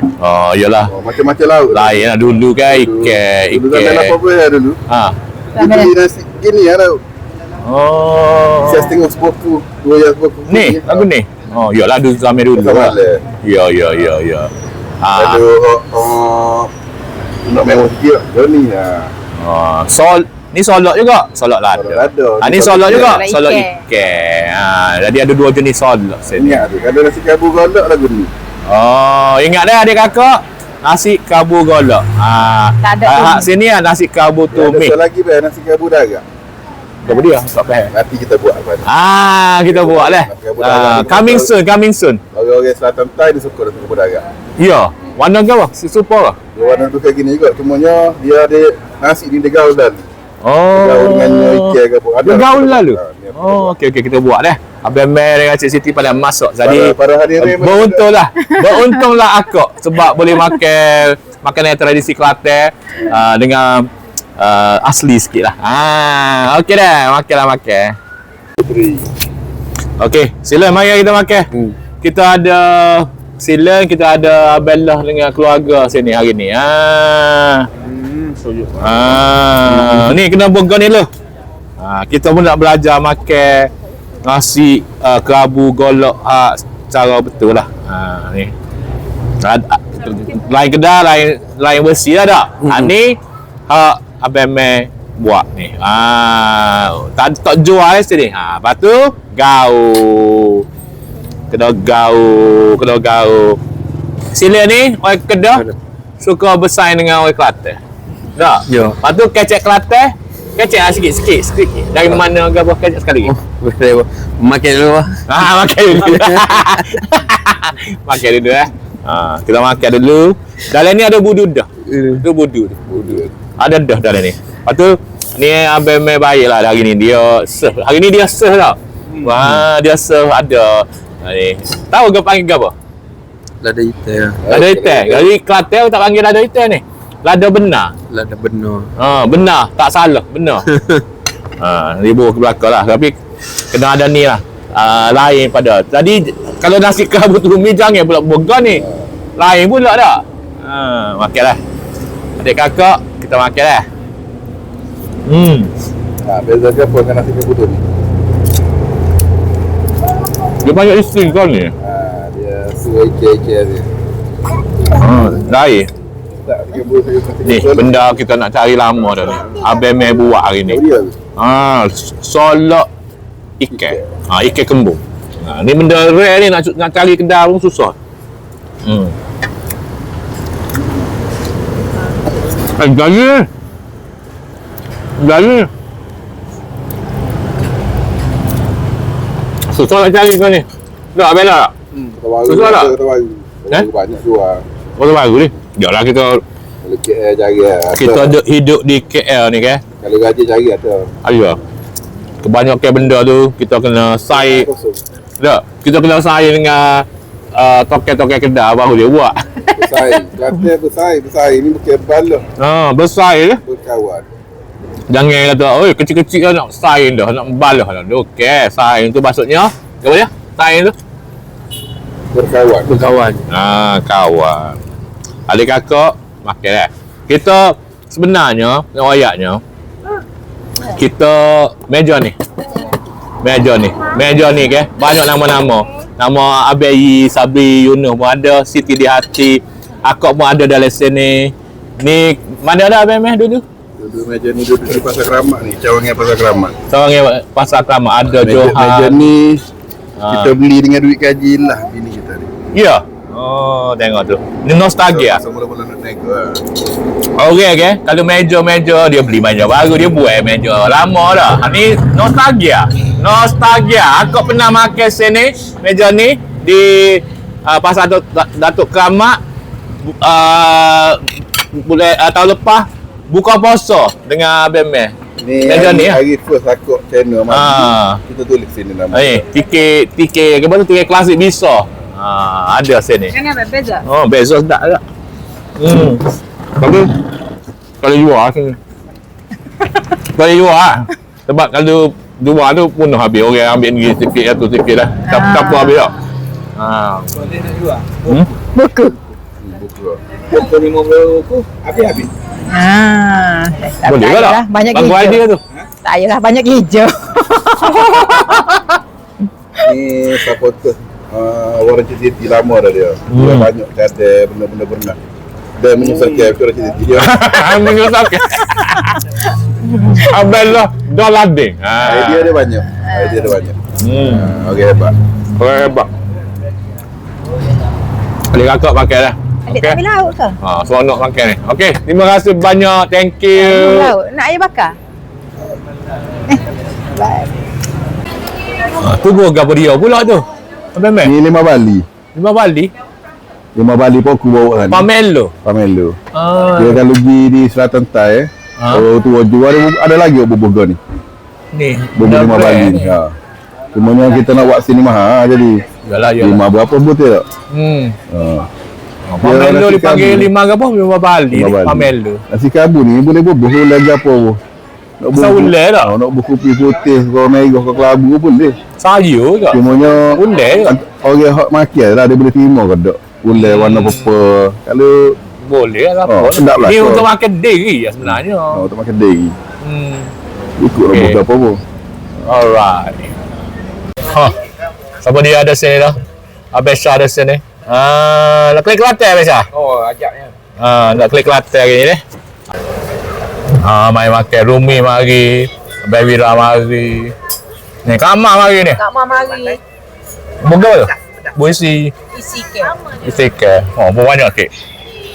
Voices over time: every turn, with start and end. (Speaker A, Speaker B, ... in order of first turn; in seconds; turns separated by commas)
Speaker A: 0.2-0.9, Speaker B: 0.9-4.8, Speaker A: 1.7-4.2, Speaker A: 4.9-5.2, Speaker C: 5.6-5.9, Speaker B: 5.6-7.0, Speaker A: 7.7-8.9, Speaker B: 8.6-11.1, Speaker A: 10.5-15.4, Speaker B: 12.6-13.2, Speaker B: 15.2-16.7, Speaker B: 17.5-19.1, Speaker A: 19.4-26.6, Speaker B: 21.7-23.2, Speaker C: 22.9-23.8, Speaker B: 26.3-28.3, Speaker A: 28.7-35.0, Speaker C: 32.8-33.5, Speaker B: 34.5-36.2, Speaker A: 37.0-37.9, Speaker B: 37.9-38.9, Speaker A: 38.9-42.2, Speaker B: 39.7-41.5, Speaker B: 42.3-44.2, Speaker A: 44.6-46.4, Speaker B: 46.5-50.0, Speaker A: 50.4-68.0, Speaker B: 50.7-53.7, Speaker B: 56.6-58.1, Speaker B: 68.6-69.1, Speaker A: 70.0-71.5, Speaker A: 72.0-77.7, Speaker B: 77.8-80.1, Speaker A: 78.8-81.1, Speaker A: 81.8-83.7, Speaker A: 84.2-88.5, Speaker A: 89.4-100.7, Speaker A: 101.5-103.6, Speaker A: 104.3-105.7, Speaker A: 106.2-107.8, Speaker A: 108.3-113.3, Speaker D: 108.7-109.0, Speaker D: 113.2-115.2, Speaker A: 115.3-132.7, Speaker D: 116.1-116.9, Speaker D: 121.9-122.2, Speaker D: 133.6-134.4, Speaker B: 134.4-135.3, Speaker A: 134.5-137.9, Speaker D: 138.1-138.9, Speaker A: 139.0-140.7, Speaker D: 140.7-141.0, Speaker A: 141.6-143.2, Speaker A: 143.7-148.8, Speaker B: 148.7-149.1, Speaker A: 149.4-151.6, Speaker A: 152.4-153.9, Speaker A: 155.3-155.7, Speaker B: 156.2-157.8, Speaker A: 160.6-161.7, Speaker B: 161.8-163.9, Speaker A: 164.8-165.9, Speaker B: 166.4-168.2, Speaker A: 167.4-170.8, Speaker B: 169.0-170.1, Speaker B: 170.6-171.2, Speaker A: 171.4-172.9, Speaker A: 173.6-177.9, Speaker B: 173.7-174.1, Speaker A: 178.8-179.1, Speaker A: 182.5-183.5, Speaker A: 185.2-185.7, Speaker A: 189.7-191.7, Speaker B: 191.9-194.7, Speaker A: 192.5-192.9, Speaker A: 195.0-196.4, Speaker B: 196.8-198.4, Speaker A: 197.9-199.8, Speaker B: 200.0-201.1, Speaker A: 201.2-201.6, Speaker A: 202.4-204.7, Speaker B: 204.3-205.0, Speaker A: 205.4-209.4, Speaker B: 209.8-212.4, Speaker A: 212.6-213.6, Speaker B: 213.6-214.2, Speaker A: 215.1-220.9, Speaker B: 222.3-222.9, Speaker D: 222.9-223.4, Speaker A: 223.5-224.8, Speaker A: 225.5-229.6, Speaker A: 230.8-232.3, Speaker A: 233.4-243.6, Speaker B: 244.0-246.8, Speaker A: 246.9-249.3, Speaker B: 248.3-249.6, Speaker A: 250.2-250.6, Speaker B: 250.3-252.5, Speaker A: 252.7-255.4, Speaker B: 255.0-256.6, Speaker A: 257.4-269.4, Speaker A: 270.0-276.2, Speaker B: 275.4-279.4, Speaker A: 277.5-278.2, Speaker A: 279.1-283.4, Speaker C: 283.3-284.0, Speaker A: 284.0-285.0, Speaker A: 285.8-286.2, Speaker A: 286.8-287.1, Speaker A: 288.0-288.8, Speaker A: 290.2-296.2, Speaker C: 295.3-296.1, Speaker A: 296.8-297.5, Speaker A: 298.2-298.5, Speaker C: 298.7-299.2, Speaker B: 299.6-300.2, Speaker D: 300.6-302.0, Speaker C: 302.0-305.4, Speaker A: 304.1-305.6, Speaker C: 306.0-308.8, Speaker A: 307.7-309.0, Speaker B: 309.8-315.2, Speaker A: 313.3-313.7, Speaker B: 315.8-318.0, Speaker A: 317.1-319.3, Speaker A: 319.9-322.5, Speaker B: 322.0-325.1, Speaker C: 323.0-323.5, Speaker A: 324.0-324.5, Speaker A: 325.5-326.1, Speaker A: 328.5-330.0, Speaker C: 329.7-330.6, Speaker A: 330.6-334.1, Speaker C: 333.5-334.9, Speaker C: 336.5-337.5, Speaker A: 339.0-341.3, Speaker B: 341.2-342.1, Speaker A: 342.3-342.9, Speaker B: 343.8-345.1, Speaker A: 344.9-345.5, Speaker B: 345.6-346.2, Speaker A: 346.3-347.0, Speaker B: 346.8-351.0, Speaker A: 348.8-349.1, Speaker A: 351.7-353.2, Speaker B: 352.2-353.3, Speaker B: 353.9-355.8, Speaker A: 356.1-356.6, Speaker B: 356.4-357.4, Speaker A: 357.7-358.2, Speaker B: 358.3-358.7, Speaker A: 359.3-362.4, Speaker B: 359.4-360.5, Speaker B: 361.5-364.6, Speaker B: 365.2-368.8, Speaker A: 365.3-366.1, Speaker A: 369.0-371.0, Speaker B: 369.7-375.4, Speaker A: 373.5-374.3, Speaker A: 375.5-378.9, Speaker B: 376.3-377.3, Speaker B: 378.2-379.5, Speaker A: 379.8-380.3, Speaker B: 380.8-381.8, Speaker A: 381.1-381.4, Speaker A: 382.4-383.3, Speaker A: 384.2-384.6, Speaker A: 385.2-386.2, Speaker A: 386.7-389.7, Speaker D: 389.7-390.5, Speaker A: 390.8-392.2, Speaker A: 393.7-397.3, Speaker A: 398.0-399.0, Speaker C: 399.0-399.8, Speaker D: 399.3-399.6, Speaker A: 400.6-402.1, Speaker C: 402.3-402.9, Speaker A: 403.0-404.7